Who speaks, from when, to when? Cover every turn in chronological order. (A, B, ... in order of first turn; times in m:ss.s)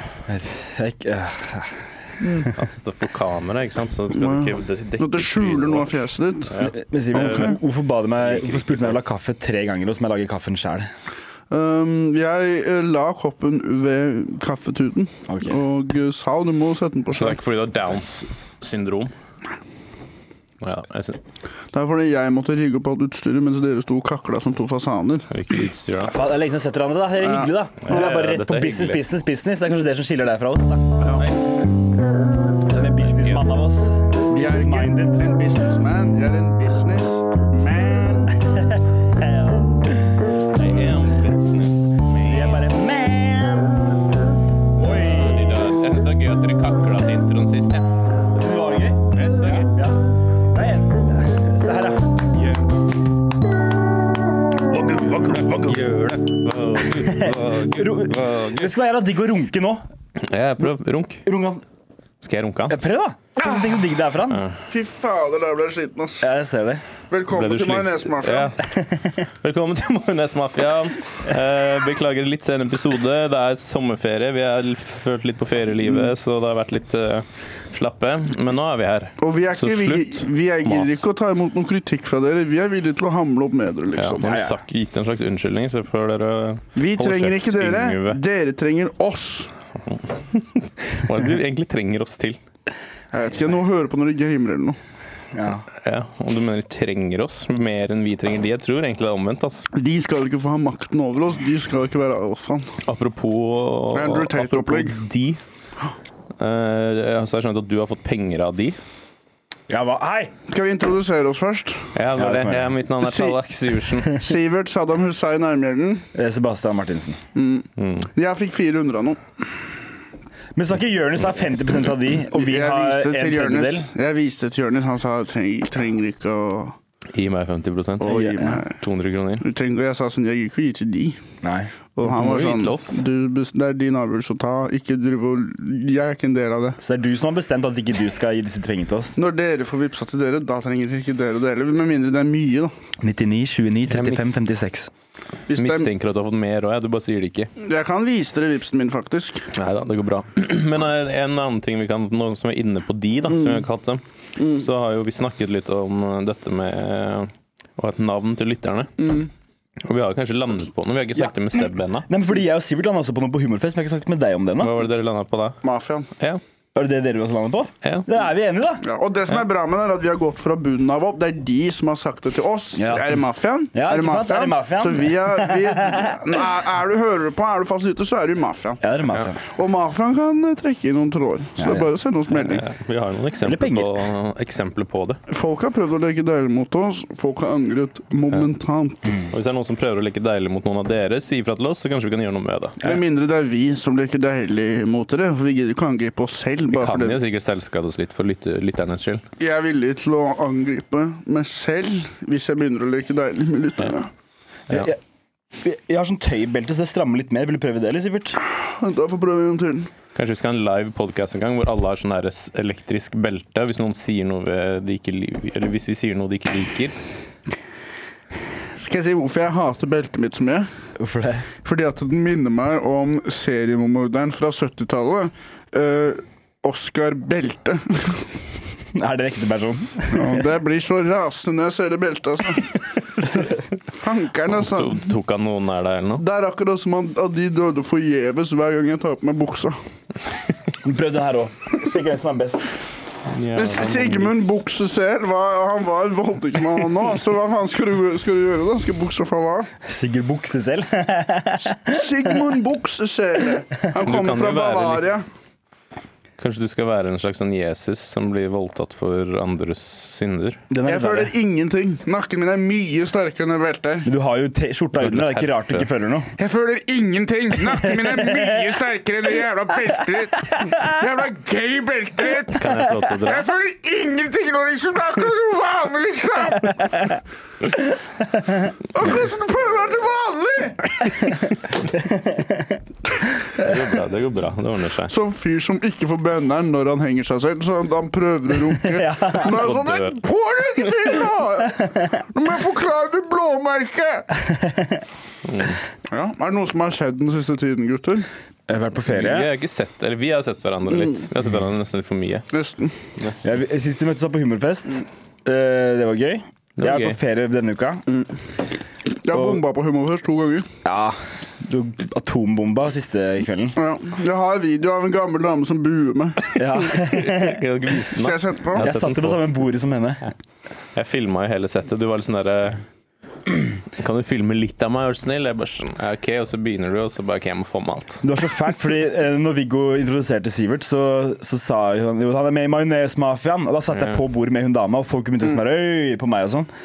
0:00.3-0:01.9 A
0:02.2-0:02.5 B
0:02.5-0:05.9 C
0:04.1-0:06.6 B
0:06.5-0:07.6 C
0:06.6-0:10.9 A
0:08.2-0:09.0 C
0:11.5-0:17.4 B
0:15.3-0:15.6 A
0:17.1-0:19.1 C
0:20.6-0:21.2 C
0:21.7-0:25.3 B
0:25.3-0:26.2 C
0:26.1-0:30.9 A
0:27.2-0:27.5 B
0:27.8-0:29.0 C
0:31.2-0:31.5 C
0:32.7-0:35.2 A
0:33.0-0:33.5 C
0:34.3-0:38.4 B
0:38.4-0:41.0 A
0:40.6-0:42.6 C
0:42.1-0:44.1 A
0:44.8-0:45.6 A
0:45.0-0:47.9 C
0:48.3-0:50.0 A
0:49.1-0:49.7 C
0:50.5-0:52.6 A
0:54.7-0:56.0 A
0:55.6-0:58.7 C
0:57.0-0:59.8 A
1:00.2-1:01.2 C
1:01.2-1:01.6 A
1:02.2-1:02.8 C
1:02.7-1:04.4 A
1:04.7-1:06.3 B
1:06.2-1:06.8 A
1:07.1-1:08.6 B
1:07.3-1:21.0 C
1:08.8-1:09.2 A
1:19.2-1:24.2 B
1:24.0-1:28.2 C
1:24.2-1:24.6 A
1:26.8-1:29.5 B
1:30.0-1:32.4 C
1:33.1-1:34.8 B
1:35.3-1:35.6 A
1:35.7-1:39.7 C
1:39.7-1:42.8 B
1:42.8-1:45.4 C
1:43.9-1:45.0 B
1:46.4-1:48.8 C
1:49.7-1:50.3 A
1:50.5-1:51.9 B
1:52.0-1:54.2 C
1:52.2-1:52.8 A
1:53.0-1:53.4 B
1:54.0-1:56.1 B
1:56.1-1:57.2 A
1:57.4-1:59.4 B
1:57.8-1:58.1 C
2:00.6-2:03.9 A
2:02.2-2:06.8 B
2:07.1-2:09.4 C
2:08.0-2:08.8 B
2:08.1-2:08.6 A
2:09.4-2:11.2 B
2:11.4-2:11.7 A
2:12.0-2:16.8 B
2:12.0-2:13.0 C
2:16.8-2:19.2 A
2:19.2-2:22.7 B
2:23.0-2:24.9 A
2:23.9-2:24.4 C
2:25.5-2:25.9 B
2:25.5-2:27.5 C
2:27.6-2:29.5 B
2:29.5-2:38.9 C
2:33.3-2:33.6 B
2:34.4-2:34.6 B
2:39.0-2:39.3 B
2:39.8-2:42.1 C
2:42.1-2:44.7 A
2:44.6-2:45.6 C
2:45.6-2:46.1 B
2:46.8-2:48.8 A
2:47.8-2:48.1 C
2:48.8-2:58.8 B
2:52.8-2:53.2 A
2:53.7-2:56.4 A
2:58.8-2:59.4 A
2:59.4-3:02.6 B
3:01.6-3:01.9 A
3:02.3-3:05.2 C
3:03.4-3:03.9 A
3:05.3-3:09.2 B
3:09.3-3:12.8 C
3:12.8-3:17.2 B
3:16.7-3:19.2 C
3:19.4-3:24.1 B
3:24.7-3:25.0 A
3:25.6-3:28.4 A
3:28.6-3:29.9 B
3:30.2-3:37.0 C
3:38.8-3:40.7 B
3:41.0-3:41.5 A
3:41.6-3:48.3 B
3:48.9-3:50.5 A
3:50.1-3:53.3 B
3:53.9-3:55.1 B
3:54.5-3:56.2 C
3:56.2-3:59.8 B
4:00.8-4:02.7 A
4:03.3-4:04.5 C
4:03.6-4:09.7 B
4:09.8-4:12.3 A
4:11.7-4:15.2 B
4:14.0-4:15.0 C
4:16.4-4:20.6 C
4:20.7-4:21.3 A
4:20.9-4:24.1 B
4:24.1-4:26.4 A
4:25.0-4:25.9 C
4:26.4-4:37.2 B
4:27.8-4:28.6 A
4:32.5-4:33.5 C
4:38.9-4:41.2 B
4:41.2-4:42.8 A
4:43.5-4:45.1 C
4:45.1-4:54.3 B
4:48.8-4:49.7 A
4:49.4-4:50.2 C
4:51.6-4:52.1 A
4:54.3-4:55.0 A
4:55.4-4:55.8 C
4:56.1-4:58.3 B
4:58.7-4:59.5 A
4:59.1-5:02.4 C
5:02.5-5:03.0 B
5:03.2-5:03.5 C
5:03.4-5:08.0 A
5:06.8-5:07.2 C
5:09.2-5:10.7 B
5:09.3-5:09.6 A
5:10.8-5:13.8 A
5:13.8-5:16.5 B
5:16.6-5:19.5 C
5:16.6-5:17.6 A
5:18.2-5:18.9 B
5:18.8-5:20.3 A
5:21.0-5:22.8 C
5:23.9-5:28.2 C
5:28.2-5:36.7 A